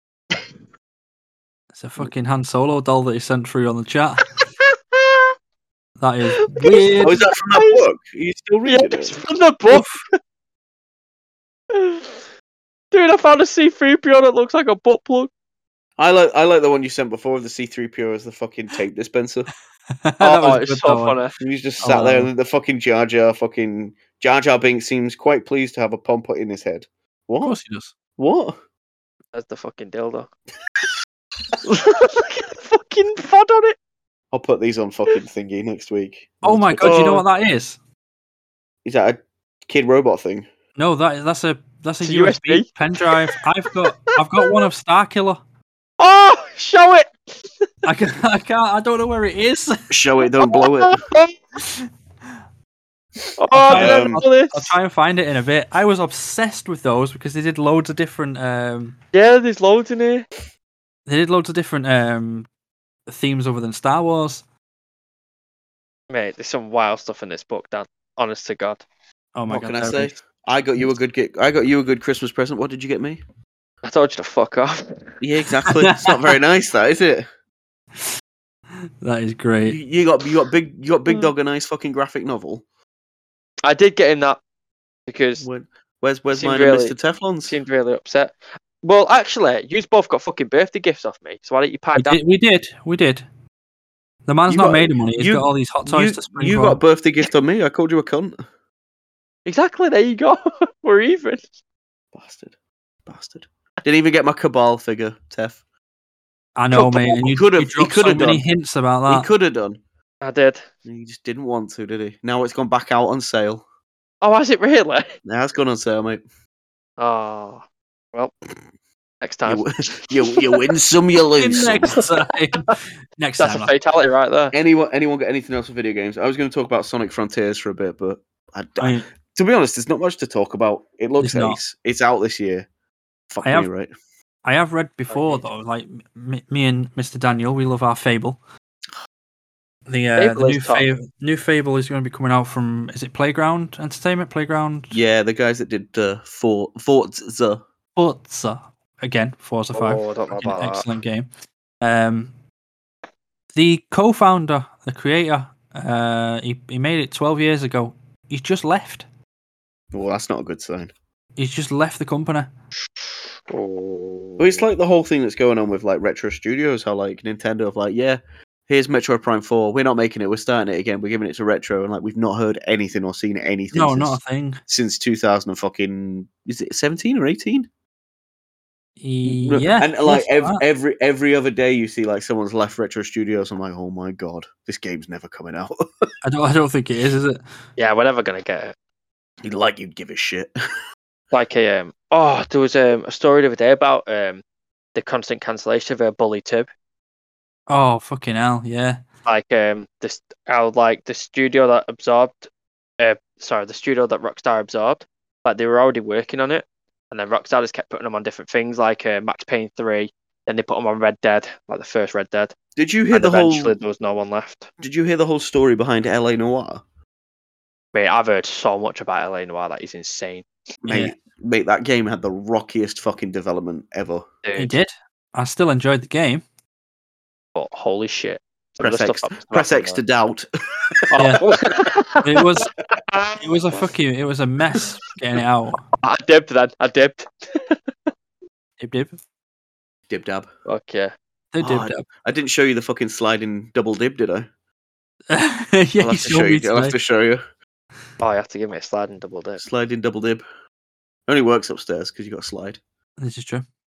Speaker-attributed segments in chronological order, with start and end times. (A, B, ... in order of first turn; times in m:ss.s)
0:01.8-0:04.3 A
0:04.7-0:05.3 B
0:06.0-0:07.2 A
0:06.4-0:07.8 B
0:07.0-0:09.2 C
0:08.6-0:10.0 B
0:09.7-0:10.0 A
0:11.7-0:12.2 B
0:12.9-0:15.3 B
0:16.0-0:19.5 C
0:20.0-0:21.2 A
0:20.2-0:21.3 B
0:21.4-0:27.6 C
0:21.8-0:22.3 A
0:27.4-0:27.9 A
0:28.2-0:28.6 C
0:29.3-0:30.3 B
0:31.6-0:33.8 B
0:34.3-0:37.2 C
0:36.4-0:37.8 A
0:36.8-0:37.2 B
0:38.8-0:40.5 C
0:40.8-0:45.4 A
0:42.0-0:44.6 B
0:46.0-0:47.5 B
0:47.8-0:49.8 A
0:49.9-0:51.0 C
0:50.4-0:51.4 B
0:53.4-0:54.8 B
0:53.5-0:59.0 A
0:53.7-0:54.2 C
0:59.1-1:00.3 B
1:01.1-1:02.5 A
1:03.1-1:04.4 A
1:06.1-1:08.8 B
1:09.4-1:10.2 A
1:09.5-1:13.2 C
1:13.8-1:15.1 B
1:15.2-1:17.3 C
1:15.7-1:16.1 A
1:19.0-1:19.8 A
1:19.7-1:22.6 C
1:23.6-1:24.4 B
1:25.1-1:25.4 B
1:25.4-1:27.6 C
1:26.3-1:27.0 B
1:27.5-1:32.2 B
1:32.0-1:33.2 A
1:34.3-1:36.8 A
1:34.5-1:38.4 C
1:39.5-1:41.4 B
1:42.1-1:42.5 C
1:43.1-1:45.6 C
1:46.6-1:49.3 A
1:46.7-1:47.2 B
1:47.0-1:48.4 C
1:49.1-1:49.8 C
1:50.2-1:50.7 B
1:50.8-1:53.6 C
1:54.2-1:55.2 B
1:55.2-1:56.2 C
1:57.0-1:57.6 B
1:59.2-2:00.5 B
1:59.4-2:02.0 C
2:01.4-2:03.7 A
2:01.9-2:02.7 B
2:03.4-2:04.5 B
2:04.5-2:12.7 C
2:08.8-2:09.1 A
2:11.2-2:11.6 A
2:13.3-2:13.9 C
2:13.4-2:13.7 A
2:14.4-2:18.4 A
2:15.1-2:15.4 B
2:19.9-2:25.0 A
2:20.2-2:20.9 B
2:24.9-2:27.6 C
2:28.0-2:31.3 A
2:29.7-2:30.9 B
2:31.8-2:32.3 A
2:33.5-2:39.0 A
2:39.9-2:40.9 C
2:41.4-2:42.5 A
2:43.5-2:44.6 B
2:44.4-2:57.7 C
2:53.7-2:54.6 A
2:59.0-3:00.6 A
2:59.3-3:06.1 C
3:06.2-3:07.4 A
3:07.8-3:08.8 B
3:09.4-3:10.5 C
3:11.3-3:14.4 B
3:15.0-3:16.7 B
3:17.7-3:19.0 A
3:19.3-3:22.5 B
3:23.0-3:32.5 B
3:32.8-3:33.8 C
3:33.1-3:34.7 B
3:34.8-3:36.8 C
3:37.9-3:40.5 B
3:40.8-3:44.3 C
3:40.9-3:41.1 A
3:44.4-3:44.7 B
3:44.6-3:46.4 A
3:47.6-3:50.0 B
3:48.8-3:51.1 C
3:51.1-3:53.4 B
3:52.2-3:52.7 A
3:53.4-3:55.8 A
3:56.0-3:58.1 B
3:58.8-3:59.2 A
4:00.1-4:00.5 C
4:00.7-4:01.1 B
4:01.5-4:02.0 A
4:01.6-4:04.5 C
4:05.3-4:07.0 A
4:06.0-4:07.4 C
4:08.2-4:09.6 B
4:09.6-4:10.4 C
4:11.3-4:12.8 C
4:13.2-4:13.6 A